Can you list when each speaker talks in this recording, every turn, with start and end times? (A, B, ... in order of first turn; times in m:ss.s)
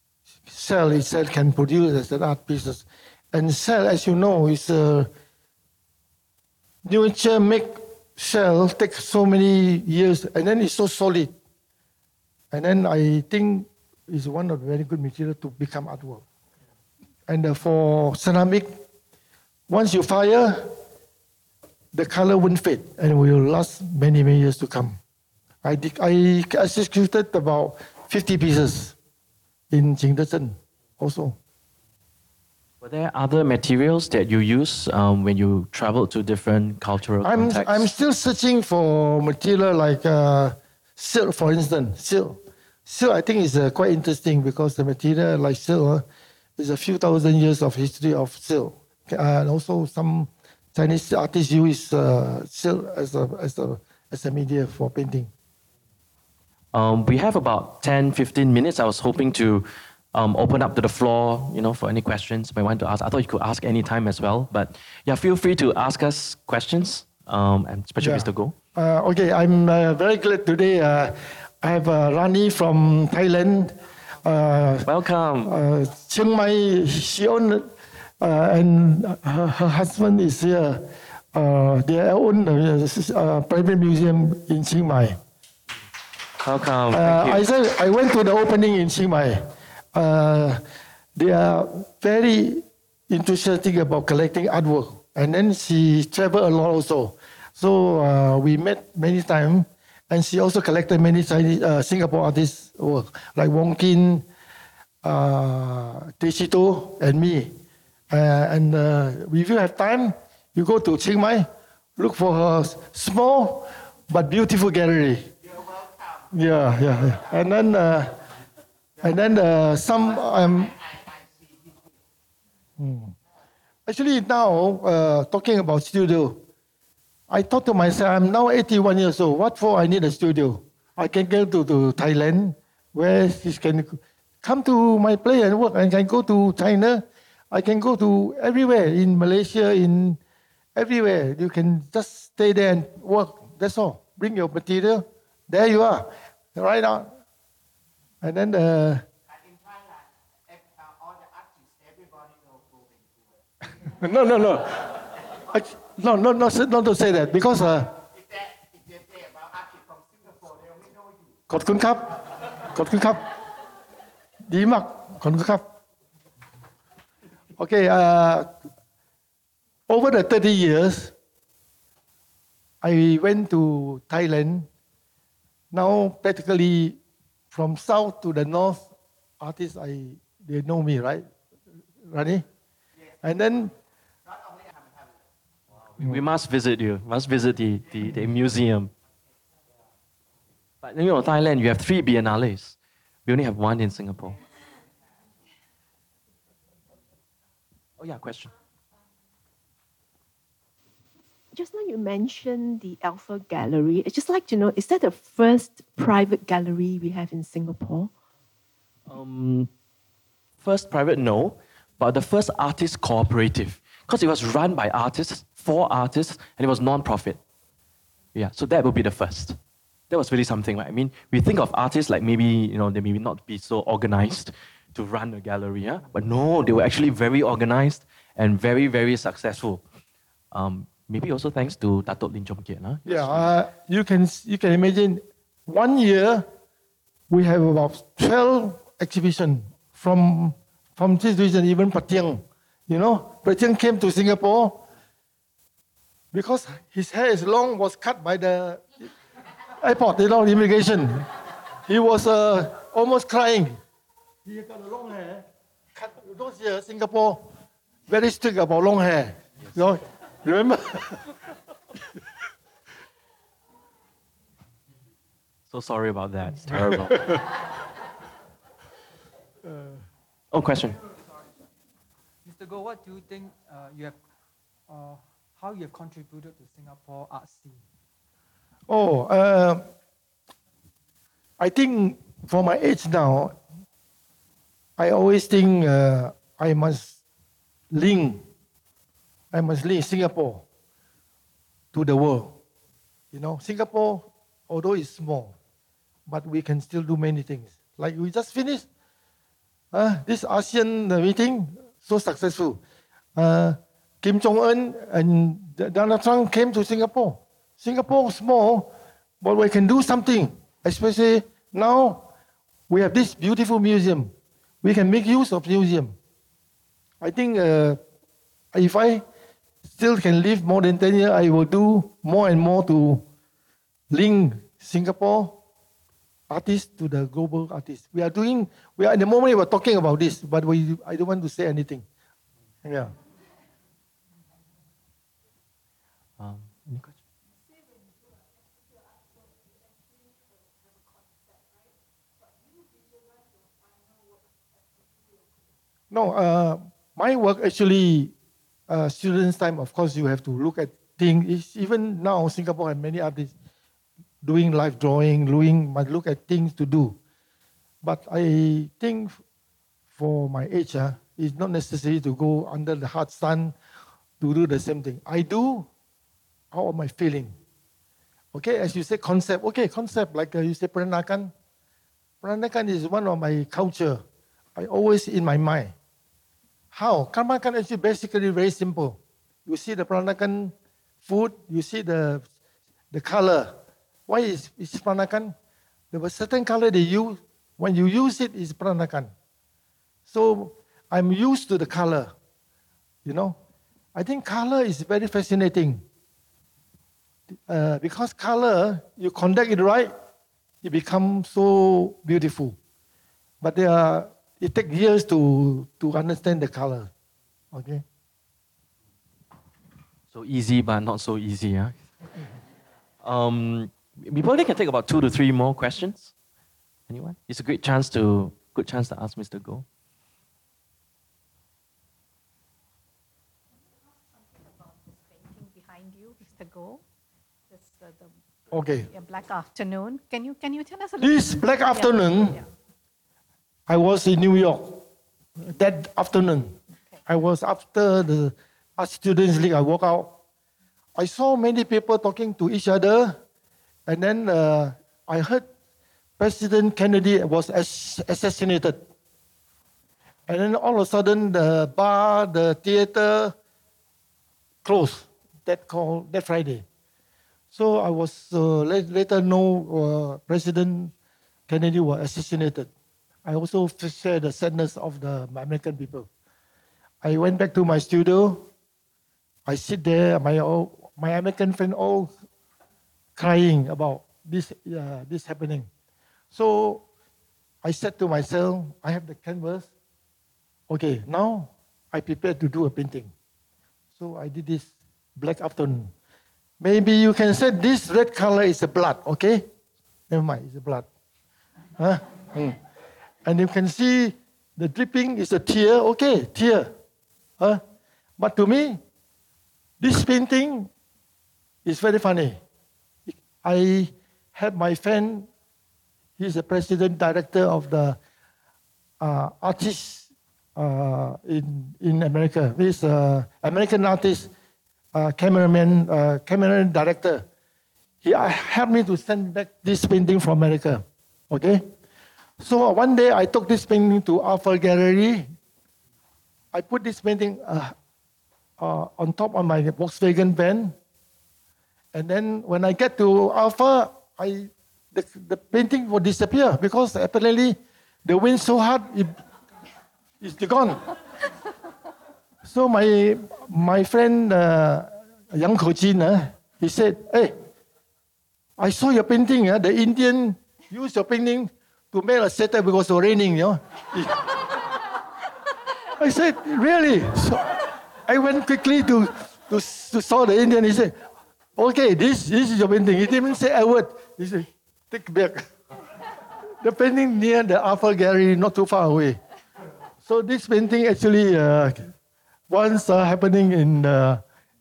0:00.5-0:05.1 A
0:06.8-0:11.3 A
0:12.5-0:16.2 A
0:17.3-0:18.7 A
0:19.7-0:20.7 A
0:21.9-0:25.0 A
0:25.6-0:28.9 A
0:29.7-0:31.4 A
0:32.8-0:37.9 B
0:37.2-0:46.0 A
0:46.6-0:55.3 A
0:56.7-1:08.5 B
1:08.0-1:14.9 A
1:14.8-1:15.5 B
1:15.4-1:17.7 A
1:18.2-1:25.2 A
1:26.4-1:27.4 B
1:26.9-1:30.6 A
1:31.1-1:44.2 A
1:45.0-1:47.5 A
1:48.1-1:55.3 A
1:56.3-1:58.1 A
1:59.0-2:00.9 A
2:02.8-2:03.2 A
2:03.8-2:06.4 A
2:07.3-2:20.2 A
2:20.7-2:27.1 A
2:28.2-2:29.0 A
2:33.8-2:37.9 A
2:41.5-2:42.2 A
2:42.7-2:43.2 A
2:44.5-2:45.6 A
2:47.6-2:48.5 A
2:49.9-2:51.1 A
2:52.8-2:54.7 A
2:55.7-2:57.0 A
2:57.5-2:58.9 A
2:59.4-3:01.3 A
3:02.0-3:02.4 A
3:03.2-3:03.7 A
3:05.9-3:08.9 B
3:10.8-3:14.4 B
3:18.0-3:18.5 B
3:21.5-3:28.1 C
3:29.1-3:29.7 B
3:30.6-3:37.4 B
3:38.3-3:39.6 B
3:40.1-3:49.8 B
3:50.5-3:53.5 B
3:53.0-3:56.5 A
3:57.3-4:04.8 A
4:06.3-4:09.1 A
4:09.7-4:11.3 A
4:11.9-4:13.8 A
4:14.4-4:17.5 A
4:18.1-4:21.3 A
4:25.7-4:27.3 B
4:26.9-4:27.4 A
4:29.6-4:30.0 A
4:30.5-4:31.0 B
4:32.4-4:34.2 D
4:34.9-4:37.8 D
4:38.9-4:39.8 A
4:41.6-4:43.6 A
4:45.0-4:47.2 A
4:47.9-4:48.4 A
4:49.5-4:50.6 A
4:51.9-4:52.6 A
4:53.3-4:55.5 A
4:56.3-4:58.8 A
4:59.9-5:02.8 A
5:03.4-5:12.3 A
5:12.9-5:16.1 A
5:17.2-5:18.0 A
5:18.7-5:19.2 A
5:19.8-5:23.2 A
5:24.1-5:25.6 A
5:26.5-5:32.0 A
5:32.8-5:33.1 A
5:36.4-5:37.2 B
5:46.1-5:48.3 A
5:48.9-5:53.5 A
5:54.4-5:57.2 A
5:58.0-5:59.4 A
6:00.2-6:03.7 A
6:04.4-6:05.9 A
6:06.7-6:07.5 A
6:08.5-6:11.5 A
6:12.4-6:14.2 A
6:14.8-6:15.9 A
6:16.9-6:22.4 A
6:23.1-6:23.7 A
6:24.3-6:25.5 A
6:26.1-6:29.3 A
6:30.3-6:32.3 A
6:33.2-6:33.6 A
6:34.1-6:36.0 A
6:37.5-6:40.1 A
6:40.8-6:42.8 A
6:43.6-6:47.1 A
6:47.7-6:48.0 A
6:50.3-6:52.1 B
6:53.2-6:56.3 B
6:57.1-6:59.8 B
7:04.4-7:07.0 E
7:07.7-7:08.4 E
7:08.7-7:09.1 A
7:09.0-7:12.7 E
7:11.2-7:12.6 A
7:13.9-7:15.0 A
7:15.6-7:20.4 A
7:21.1-7:23.4 A
7:24.1-7:25.7 A
7:26.4-7:29.0 A
7:30.5-7:33.5 A
7:34.8-7:36.8 A
7:37.7-7:41.1 A
7:41.7-7:42.9 A
7:43.4-7:46.3 A
7:47.2-7:48.7 A
7:49.6-7:52.3 A
7:53.4-7:55.9 A
7:56.5-7:57.0 A
7:57.8-7:59.9 A
8:00.9-8:03.3 A
8:04.2-8:06.1 A
8:06.8-8:09.7 A
8:10.3-8:11.1 A
8:12.0-8:12.8 A
8:13.4-8:16.9 A
8:18.4-8:19.0 A
8:20.0-8:20.9 A
8:21.8-8:22.6 A
8:23.3-8:25.5 A
8:26.4-8:28.2 A
8:29.2-8:34.5 A
8:35.1-8:37.4 A
8:38.2-8:41.8 A
8:42.6-8:45.5 A
8:46.7-8:47.9 A
8:48.8-8:50.9 A
8:52.1-8:59.4 A
9:00.4-9:01.1 A
9:02.6-9:07.5 A
9:08.8-9:14.6 A
9:16.2-9:21.2 A
9:21.8-9:25.7 A
9:26.8-9:29.4 A
9:30.2-9:32.1 A
9:32.7-9:34.4 A